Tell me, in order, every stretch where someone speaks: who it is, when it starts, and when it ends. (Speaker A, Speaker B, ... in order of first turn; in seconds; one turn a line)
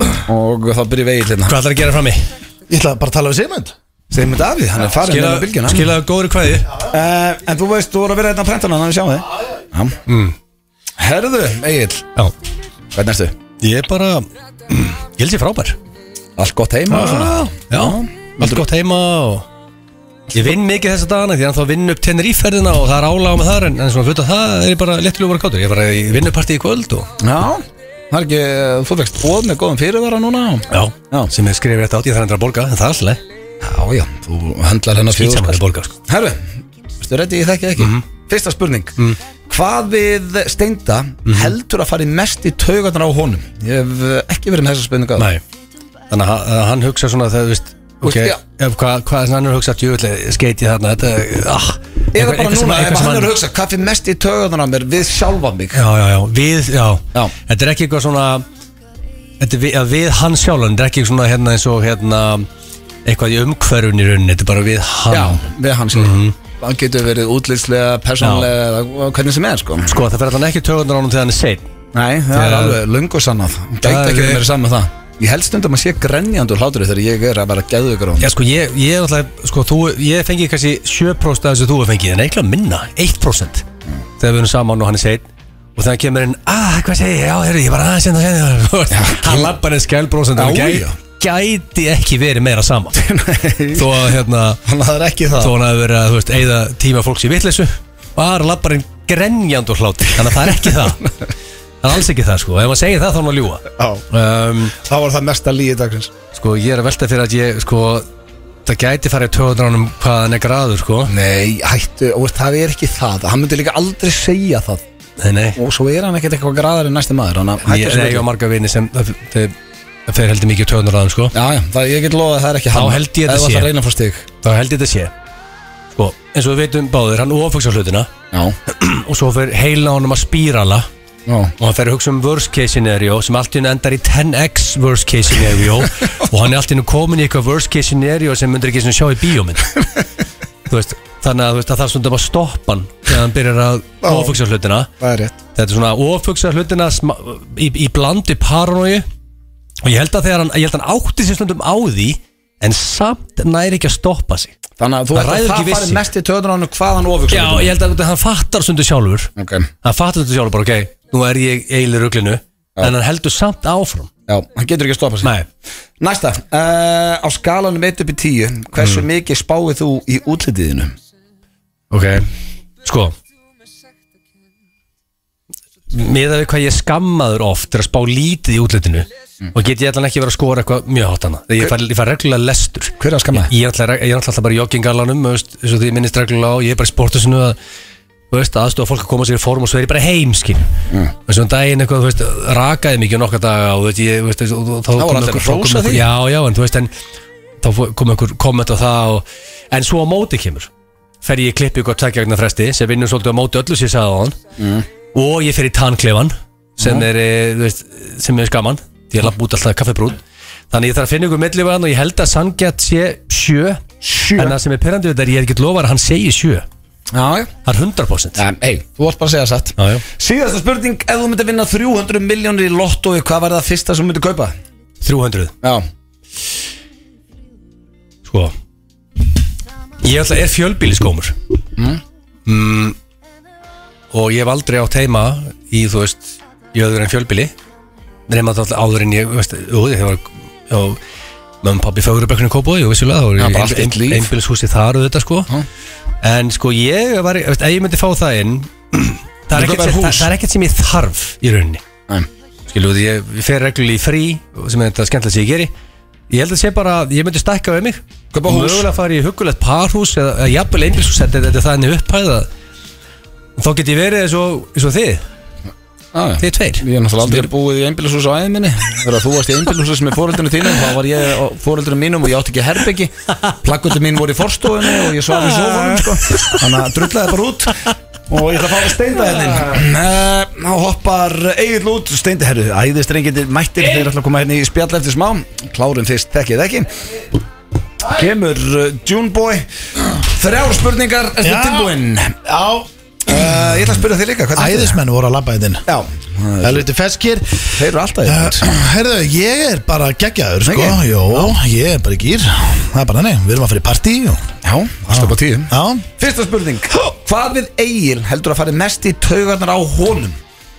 Speaker A: 0.2-1.5
Speaker B: 1.5-2.2
Speaker C: 2.7-3.7
Speaker A: 4.1-5.9
Speaker B: 4.9-6.8
Speaker A: 6.8-9.9
Speaker B: 10.1-10.3
Speaker A: 11.0-12.1
Speaker A: 12.9-13.3
Speaker B: 13.6-15.8
Speaker A: 16.4-18.6
Speaker B: 16.9-19.5
Speaker B: 20.3-27.1
Speaker A: 27.2-31.3
Speaker B: 30.7-33.2
Speaker A: 33.6-38.9
Speaker B: 35.1-35.9
Speaker B: 37.8-38.0
Speaker A: 39.5-45.3
Speaker B: 41.3-41.5
Speaker B: 46.1-53.3
Speaker A: 48.0-48.4
Speaker A: 52.1-55.8
Speaker B: 55.7-58.4
Speaker B: 59.4-62.5
Speaker B: 63.0-66.3
Speaker A: 65.1-70.0
Speaker B: 68.2-68.5
Speaker B: 69.9-71.6
Speaker A: 71.9-78.3
Speaker B: 72.3-72.8
Speaker B: 73.8-74.5
Speaker B: 78.2-83.7
Speaker B: 84.2-85.2
Speaker B: 85.8-93.0
Speaker A: 88.9-89.5
Speaker A: 90.3-91.0
Speaker A: 93.0-93.9
Speaker B: 93.7-94.6
Speaker A: 94.7-95.5
Speaker B: 95.4-101.1
Speaker B: 101.8-104.7
Speaker A: 103.8-104.0
Speaker A: 104.8-106.1
Speaker B: 106.3-108.0
Speaker B: 108.7-111.1
Speaker A: 111.1-114.8
Speaker B: 115.2-115.6
Speaker A: 115.5-118.3
Speaker B: 117.6-119.5
Speaker B: 120.1-121.3
Speaker A: 121.3-124.2
Speaker B: 122.7-123.7
Speaker B: 124.4-125.1
Speaker B: 126.0-128.1
Speaker A: 128.3-128.6
Speaker B: 128.7-130.9
Speaker A: 131.3-131.5
Speaker B: 131.6-139.8
Speaker B: 140.7-144.9
Speaker A: 144.0-144.3
Speaker A: 145.0-145.3
Speaker B: 145.5-149.0
Speaker B: 149.8-154.5
Speaker A: 154.8-157.7
Speaker B: 155.1-156.0
Speaker B: 157.3-159.3
Speaker A: 159.4-159.7
Speaker B: 159.8-164.1
Speaker A: 164.3-165.3
Speaker A: 166.0-170.9
Speaker B: 171.9-172.3
Speaker B: 172.8-173.1
Speaker B: 175.9-187.6
Speaker A: 183.0-183.5
Speaker B: 188.3-190.7
Speaker B: 191.3-196.9
Speaker A: 195.0-196.0
Speaker B: 197.6-200.7
Speaker B: 201.2-204.4
Speaker A: 204.6-204.8
Speaker B: 205.1-210.2
Speaker A: 206.8-207.1
Speaker B: 210.7-213.8
Speaker A: 214.0-214.6
Speaker B: 214.3-216.6
Speaker A: 217.1-217.5
Speaker B: 217.6-218.4
Speaker A: 218.3-224.5
Speaker B: 219.8-220.0
Speaker B: 225.0-225.5
Speaker B: 228.2-228.5
Speaker B: 230.0-231.3
Speaker B: 232.4-232.9
Speaker B: 234.1-237.5
Speaker B: 238.3-241.0
Speaker B: 241.6-245.5
Speaker A: 243.4-244.3
Speaker B: 246.2-251.8
Speaker A: 249.5-250.3
Speaker B: 252.7-255.7
Speaker B: 256.3-262.5
Speaker A: 258.3-258.9
Speaker B: 263.6-265.2
Speaker A: 266.1-286.9
Speaker B: 266.4-267.4
Speaker B: 275.1-276.6
Speaker A: 288.1-292.4
Speaker C: 291.4-293.8
Speaker A: 293.3-295.0
Speaker C: 294.5-295.9
Speaker A: 295.9-296.9
Speaker C: 296.6-304.4
Speaker A: 297.7-298.7
Speaker A: 300.6-301.5
Speaker A: 304.6-310.4
Speaker C: 305.1-306.1